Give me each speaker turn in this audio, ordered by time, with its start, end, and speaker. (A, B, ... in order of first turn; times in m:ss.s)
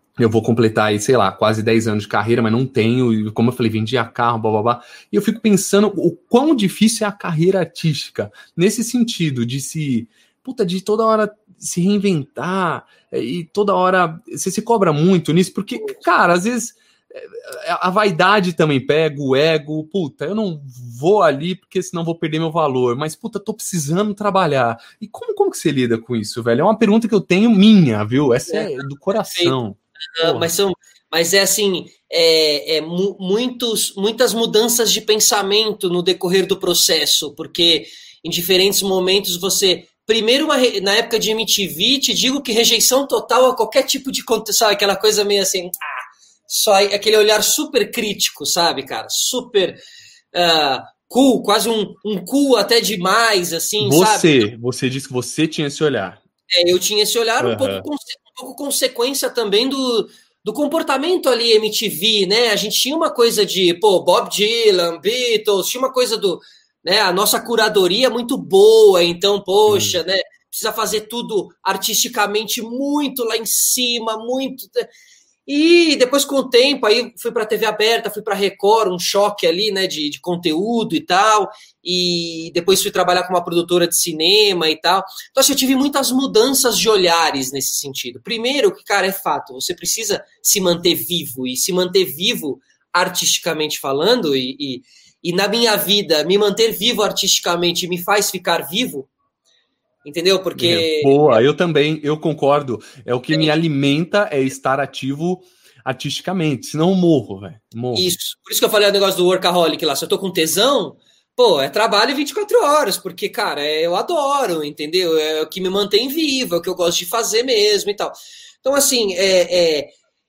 0:00.2-0:30.5 A
0:28.5-0:29.6 B
0:30.2-0:49.8 B
0:50.3-0:54.5 B
0:53.8-0:56.2 A
0:56.5-1:14.9 B
0:57.4-0:57.9 A
1:09.7-1:10.0 A
1:15.5-1:39.1 B
1:40.0-1:41.4 B
1:40.6-1:48.1 A
1:43.3-1:43.6 B
1:48.0-1:59.9 B